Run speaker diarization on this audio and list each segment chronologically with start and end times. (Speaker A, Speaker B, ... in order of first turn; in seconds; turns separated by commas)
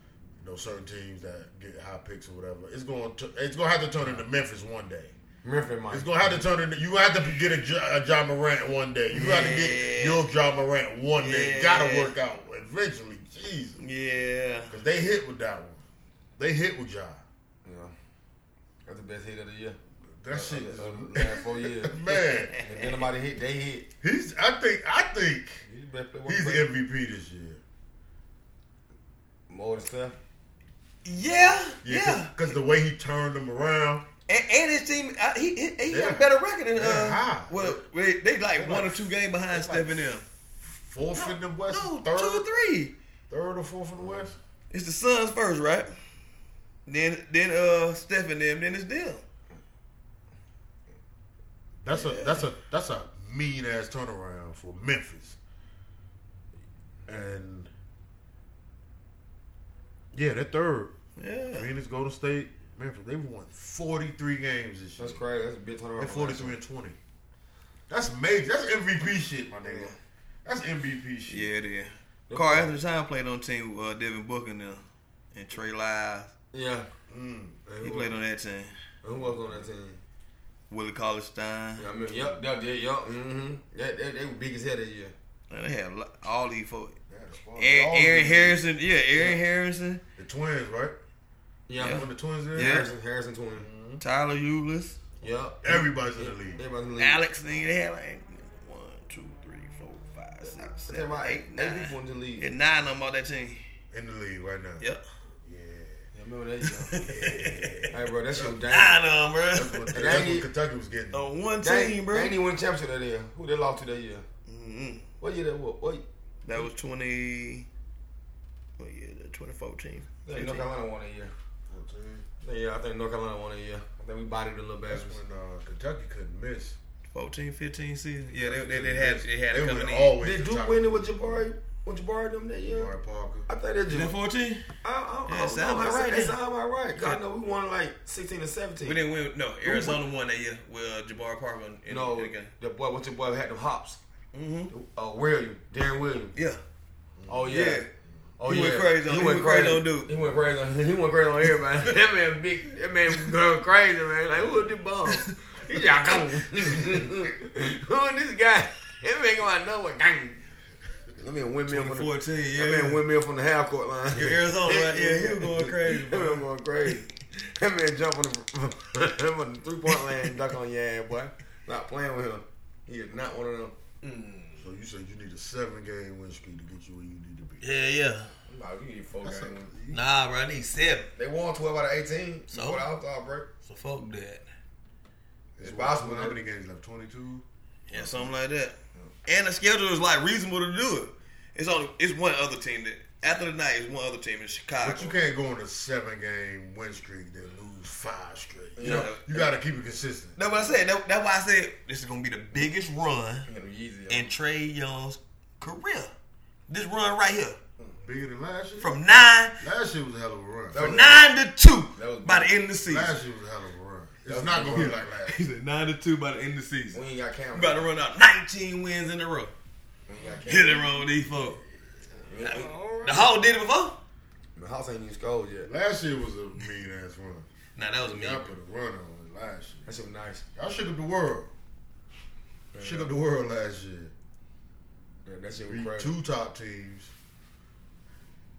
Speaker A: 0.4-5.2, Speaker B: 5.4-6.3, Speaker A: 5.9-13.8, Speaker C: 9.1-10.2, Speaker C: 11.2-12.1, Speaker C: 13.8-14.7, Speaker A: 14.7-15.8, Speaker A: 16.4-17.2, Speaker B: 17.6-17.9, Speaker B: 18.9-19.8, Speaker A: 20.2-22.6, Speaker B: 20.3-23.9, Speaker C: 22.5-23.0, Speaker A: 24.0-25.6, Speaker B: 25.6-26.7, Speaker A: 26.3-27.6, Speaker B: 29.5-30.2, Speaker C: 31.1-32.3, Speaker A: 31.8-34.1, Speaker C: 34.3-40.2, Speaker A: 35.9-37.8, Speaker A: 38.6-39.0, Speaker B: 39.5-39.9, Speaker A: 40.6-42.5, Speaker C: 41.1-43.0, Speaker A: 43.3-44.4, Speaker B: 44.0-44.3, Speaker C: 44.7-45.9, Speaker C: 46.9-49.2, Speaker A: 51.8-55.4, Speaker C: 51.9-52.5, Speaker A: 57.1-57.7, Speaker A: 60.1-60.9, Speaker C: 61.2-61.7, Speaker A: 61.5-65.2, Speaker B: 65.0-66.5, Speaker A: 66.0-67.0, Speaker A: 67.9-71.5, Speaker B: 69.6-70.0, Speaker C: 71.3-76.3, Speaker B: 72.3-72.7, Speaker B: 76.5-76.9, Speaker A: 77.1-78.2, Speaker C: 77.8-78.7, Speaker B: 79.0-80.0, Speaker A: 79.2-79.7, Speaker C: 80.7-81.9, Speaker B: 81.8-85.1, Speaker A: 82.0-82.4, Speaker C: 85.5-87.0, Speaker A: 87.1-88.6, Speaker C: 87.6-90.0, Speaker A: 90.2-91.0, Speaker B: 91.7-93.7, Speaker A: 91.8-92.8, Speaker C: 91.8-92.9, Speaker A: 93.6-94.0, Speaker C: 94.0-95.0, Speaker B: 95.2-97.2, Speaker A: 95.6-96.6, Speaker C: 97.0-103.6, Speaker B: 100.8-102.5, Speaker A: 103.9-104.9, Speaker A: 105.5-106.0, Speaker B: 106.1-107.0, Speaker C: 106.7-107.9, Speaker A: 107.0-108.6, Speaker B: 107.9-109.0, Speaker C: 108.7-110.3, Speaker A: 109.5-111.2, Speaker B: 109.9-110.5, Speaker C: 111.1-112.3, Speaker B: 111.6-114.3, Speaker C: 114.5-115.1, Speaker B: 115.2-116.0, Speaker C: 116.5-117.7, Speaker C: 118.8-120.7, Speaker B: 120.2-121.3, Speaker A: 121.7-122.3, Speaker B: 122.4-125.2, Speaker A: 124.9-126.8, Speaker C: 127.1-130.2, Speaker A: 128.4-131.5, Speaker B: 130.2-132.9, Speaker A: 132.7-133.5, Speaker B: 133.5-134.1, Speaker C: 133.9-134.7, Speaker B: 134.8-139.0, Speaker C: 135.3-136.4, Speaker C: 138.8-142.5, Speaker B: 139.7-140.0, Speaker B: 141.9-144.0, Speaker C: 144.3-144.7, Speaker B: 144.7-146.3, Speaker A: 147.2-147.6, Speaker B: 147.3-147.8, Speaker C: 147.5-147.9, Speaker B: 148.4-160.4, Speaker C: 148.5-150.1, Speaker B: 161.2-174.6, Speaker C: 161.7-163.0, Speaker C: 164.1-166.5, Speaker A: 174.6-177.6, Speaker C: 177.6-178.3, Speaker B: 178.5-179.7, Speaker A: 179.2-180.0, Speaker C: 179.9-181.1, Speaker B: 181.2-183.5, Speaker C: 182.5-182.9, Speaker C: 183.7-184.4, Speaker A: 185.6-188.3, Speaker B: 185.6-186.4, Speaker C: 187.9-195.2, Speaker A: 194.8-200.4, Speaker B: 198.8-199.2, Speaker C: 198.8-199.5, Speaker C: 200.4-203.5, Speaker B: 203.5-204.3, Speaker C: 204.1-206.1, Speaker C: 206.7-207.6, Speaker A: 208.0-211.1, Speaker C: 208.8-209.6, Speaker B: 210.7-211.2, Speaker C: 210.8-213.1, Speaker B: 212.0-212.5, Speaker A: 212.9-215.4, Speaker B: 214.3-215.0, Speaker C: 215.2-217.0, Speaker B: 216.9-217.9, Speaker C: 217.5-219.5, Speaker B: 220.1-220.9, Speaker C: 220.5-221.6, Speaker B: 222.3-222.8, Speaker C: 222.4-224.0, Speaker A: 222.6-223.3, Speaker B: 224.6-225.7, Speaker A: 225.7-227.5, Speaker C: 227.8-228.5, Speaker A: 228.1-229.9, Speaker B: 229.9-230.4, Speaker A: 230.6-231.5, Speaker B: 232.7-233.1, Speaker A: 232.8-234.1, Speaker B: 235.2-236.1, Speaker A: 235.7-237.1